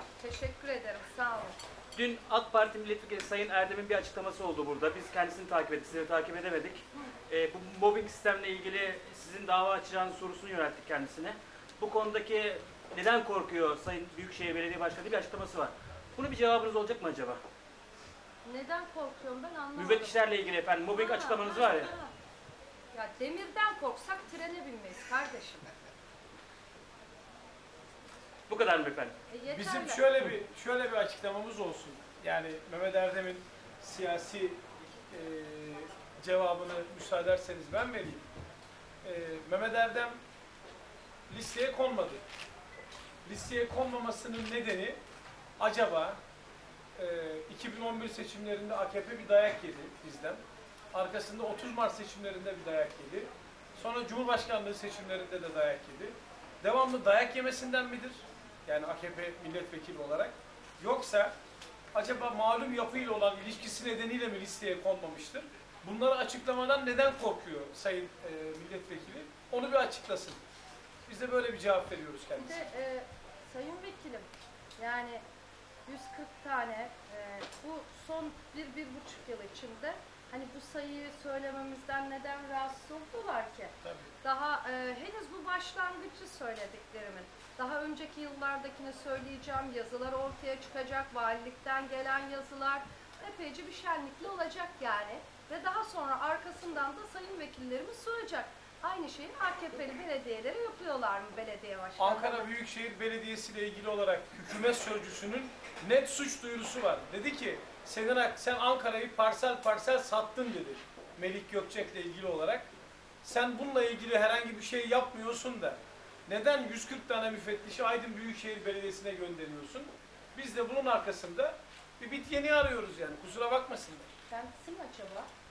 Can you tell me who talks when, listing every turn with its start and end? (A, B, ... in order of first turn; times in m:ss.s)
0:00.2-0:01.6 A
0:02.0-0:17.4 B
0:18.4-0:20.2 A
0:19.8-0:21.9 B
0:20.9-0:22.1 A
0:22.9-0:25.7 A
0:28.5-0:29.2 B
0:29.3-0:30.1 A
0:29.5-0:38.3 C
0:39.0-0:40.2 C
0:41.3-0:42.2 C
0:43.2-0:45.0 C
0:45.6-0:46.2 C
0:47.0-0:50.4 C
0:50.9-1:01.4 C
1:01.9-1:10.4 C
1:11.1-1:12.7 C
1:12.4-1:14.3 A
1:14.8-1:15.2 A
1:15.9-1:42.5 A
1:23.8-1:24.1 C
1:42.0-1:52.7 C
1:53.2-2:04.1 C
2:04.3-2:05.3 A